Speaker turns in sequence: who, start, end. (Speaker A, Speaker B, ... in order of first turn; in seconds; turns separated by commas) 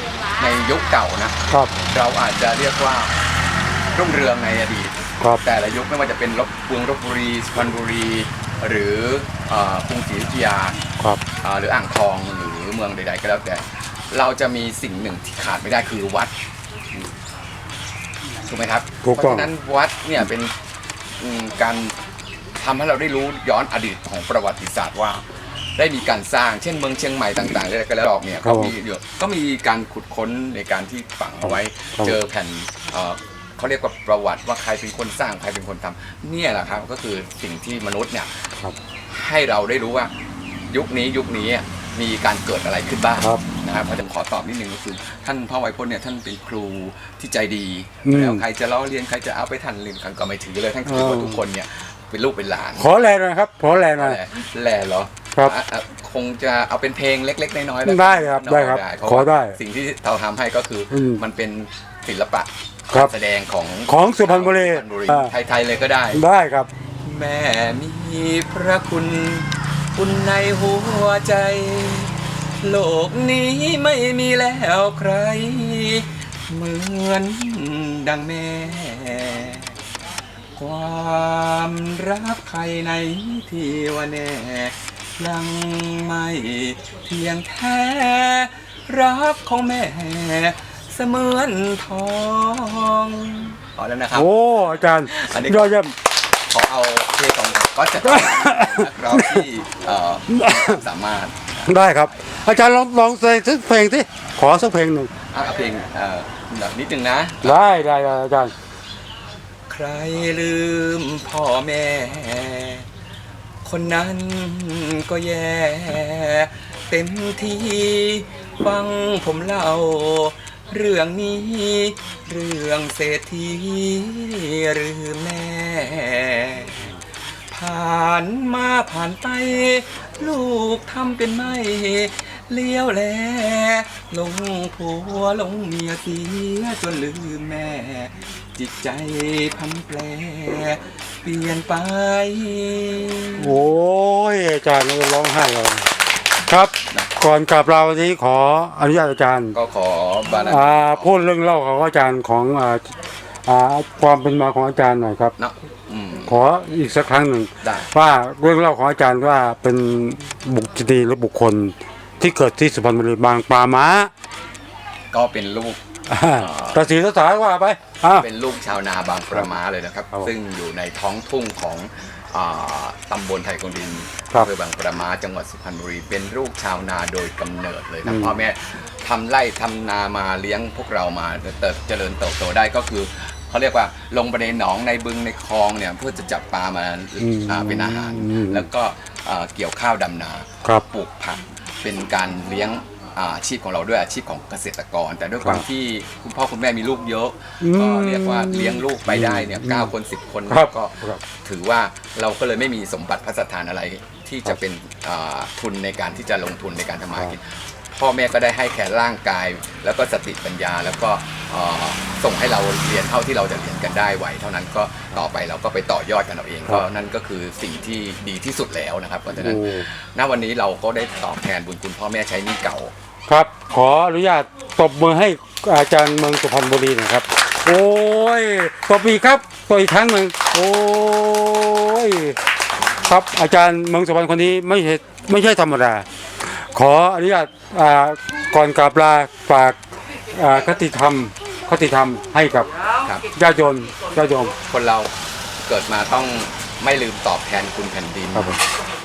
Speaker A: 0.4-3.1, Speaker A: 3.9-10.8, Speaker A: 11.4-16.3, Speaker A: 18.4-20.5, Speaker B: 19.0-19.5, Speaker A: 21.2-21.9, Speaker A: 22.6-25.2, Speaker A: 25.8-38.5, Speaker B: 28.4-28.7, Speaker A: 39.1-40.1, Speaker A: 40.7-52.9, Speaker B: 48.0-48.4, Speaker B: 50.9-51.4, Speaker B: 52.8-54.2, Speaker A: 53.9-66.2, Speaker B: 57.8-59.6, Speaker B: 60.9-61.2, Speaker B: 63.9-65.3, Speaker B: 66.1-66.7, Speaker A: 67.0-79.7, Speaker A: 80.5-94.3, Speaker B: 94.1-95.9, Speaker A: 95.0-95.8, Speaker A: 96.5-102.4, Speaker B: 98.0-99.5, Speaker B: 100.3-100.8, Speaker B: 101.7-105.1, Speaker A: 105.3-107.8, Speaker B: 107.4-108.5, Speaker A: 109.7-112.9, Speaker A: 113.6-143.6, Speaker B: 143.4-145.9, Speaker B: 146.5-149.6, Speaker A: 149.5-151.2, Speaker B: 150.4-152.9, Speaker B: 153.4-155.3, Speaker A: 155.4-156.4, Speaker B: 156.2-164.1, Speaker A: 157.6-157.9, Speaker A: 165.1-165.8, Speaker B: 166.1-168.2, Speaker A: 166.4-166.9, Speaker A: 168.1-222.9, Speaker B: 178.0-178.3, Speaker B: 187.2-188.7, Speaker B: 197.6-199.9, Speaker B: 200.5-201.2, Speaker B: 219.3-219.9, Speaker B: 223.3-232.4, Speaker B: 233.0-239.8, Speaker B: 240.3-242.7, Speaker B: 243.3-244.5, Speaker A: 244.6-245.1, Speaker A: 245.6-248.6, Speaker B: 248.3-248.6